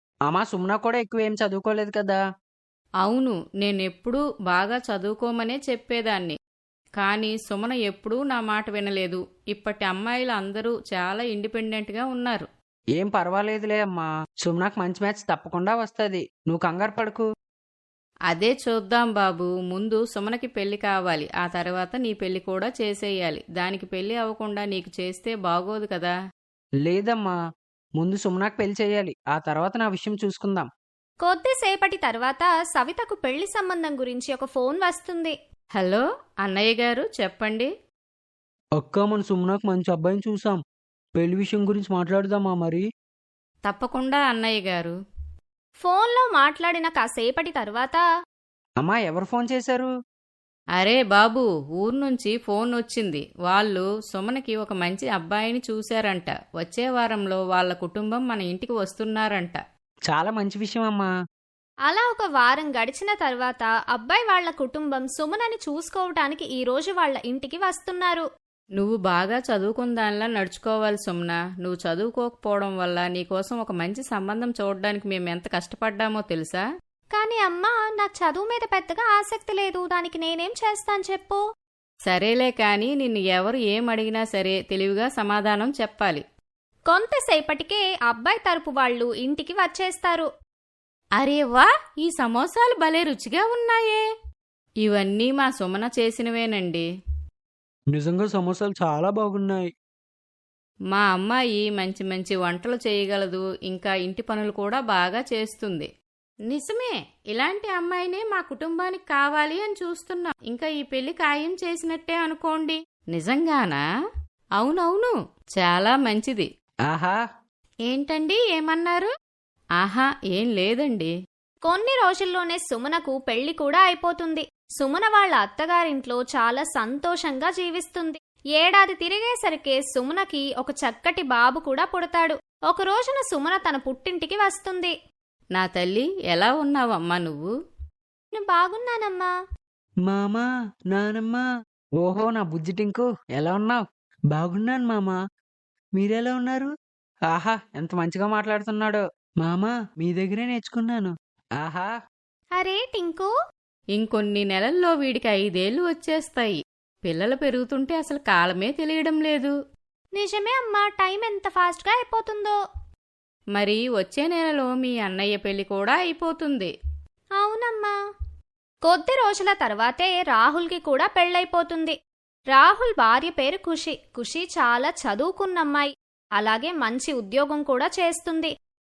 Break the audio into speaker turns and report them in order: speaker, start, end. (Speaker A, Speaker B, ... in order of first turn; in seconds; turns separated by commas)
Speaker A: 0.3-2.2, Speaker B: 3.0-6.4, Speaker B: 7.0-12.5, Speaker A: 13.0-17.2, Speaker B: 18.3-26.1, Speaker A: 26.9-27.3, Speaker A: 28.0-30.7, Speaker C: 31.2-35.3, Speaker B: 35.8-37.7, Speaker A: 38.8-40.6, Speaker A: 41.2-42.8, Speaker B: 43.7-44.9, Speaker C: 45.8-48.0, Speaker A: 48.8-49.9, Speaker B: 50.8-59.6, Speaker A: 60.1-61.1, Speaker C: 61.9-68.2, Speaker B: 68.8-76.6, Speaker C: 77.1-81.4, Speaker B: 82.1-86.2, Speaker C: 86.9-90.3, Speaker B: 91.2-94.0, Speaker B: 94.8-96.8, Speaker A: 97.9-99.7, Speaker B: 100.9-105.9, Speaker B: 106.5-113.8, Speaker B: 114.6-116.5, Speaker A: 116.9-117.2, Speaker B: 117.9-119.1, Speaker B: 119.8-121.1, Speaker C: 121.7-134.9, Speaker B: 135.6-137.5, Speaker C: 138.3-139.3, Speaker A: 140.1-141.4, Speaker A: 142.0-143.8, Speaker A: 144.3-145.2, Speaker A: 146.0-146.7, Speaker A: 147.3-151.9, Speaker C: 152.6-153.3, Speaker B: 153.9-159.5, Speaker C: 160.2-162.5, Speaker B: 163.6-166.7, Speaker C: 167.4-167.9, Speaker C: 168.9-171.9, Speaker C: 172.5-178.5